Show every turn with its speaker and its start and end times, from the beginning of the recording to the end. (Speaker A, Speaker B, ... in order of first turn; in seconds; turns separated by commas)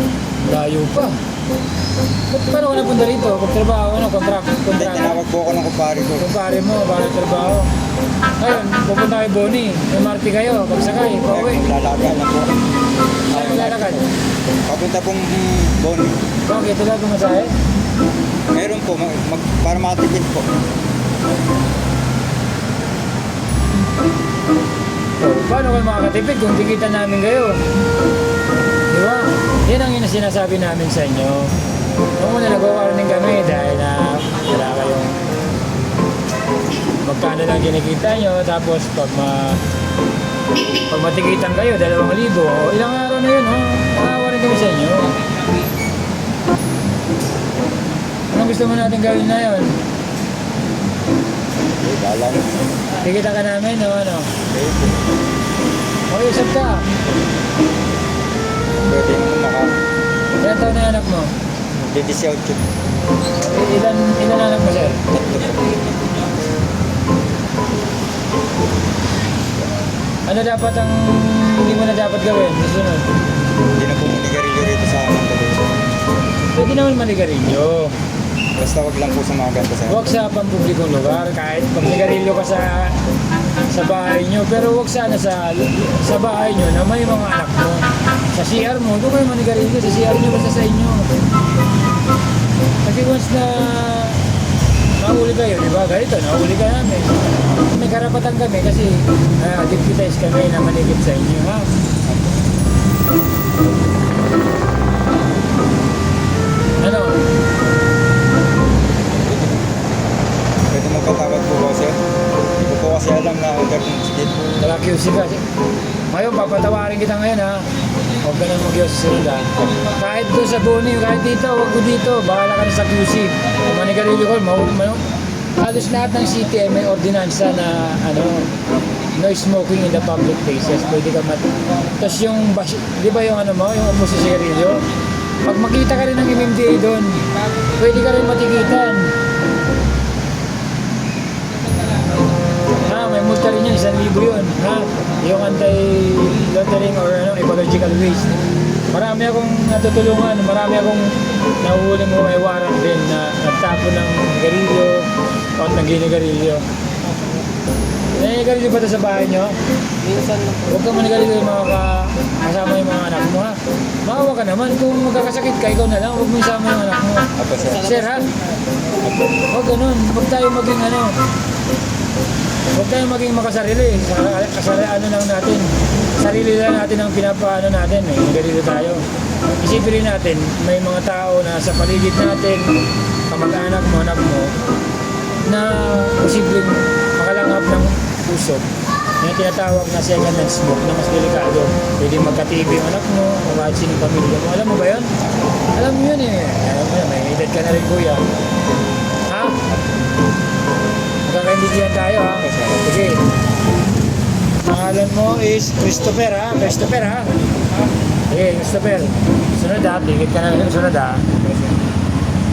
Speaker A: 0.4-1.2, Speaker A: 2.3-5.2, Speaker B: 4.8-6.3, Speaker A: 6.2-7.7, Speaker A: 8.4-11.6, Speaker B: 11.3-12.5, Speaker B: 13.3-14.0, Speaker A: 13.3-14.1, Speaker B: 14.7-16.2, Speaker A: 16.5-17.6, Speaker B: 18.5-20.5, Speaker A: 25.2-27.6, Speaker A: 28.9-31.5, Speaker A: 32.2-35.2, Speaker A: 37.0-39.6, Speaker A: 40.9-45.2, Speaker A: 48.3-49.8, Speaker B: 51.8-52.6, Speaker A: 53.0-54.3, Speaker B: 54.5-55.0, Speaker A: 56.1-56.9, Speaker B: 58.8-59.8, Speaker A: 60.4-61.3, Speaker B: 61.8-62.6, Speaker A: 63.4-65.0, Speaker B: 65.1-65.7, Speaker A: 70.3-73.1, Speaker B: 73.8-75.7, Speaker A: 76.5-78.0, Speaker B: 78.6-80.1, Speaker A: 79.9-83.0, Speaker A: 83.7-91.1, Speaker A: 92.8-94.2, Speaker A: 95.0-101.7, Speaker A: 106.8-107.2, Speaker B: 110.7-112.0, Speaker B: 112.6-114.5, Speaker A: 114.6-115.4, Speaker A: 116.1-128.5, Speaker A: 129.1-134.9, Speaker A: 135.4-139.1, Speaker A: 142.7-148.3, Speaker A: 148.9-156.7, Speaker A: 158.2-159.6, Speaker A: 160.7-168.3, Speaker B: 167.4-167.9, Speaker B: 169.0-169.3, Speaker A: 169.5-171.2, Speaker A: 172.7-179.0, Speaker A: 179.6-182.7, Speaker A: 183.3-184.5, Speaker A: 185.4-188.7, Speaker A: 189.2-195.1, Speaker A: 195.8-198.3, Speaker A: 199.2-199.6, Speaker A: 201.3-203.2, Speaker B: 202.4-202.8, Speaker A: 204.6-207.3, Speaker A: 208.3-211.3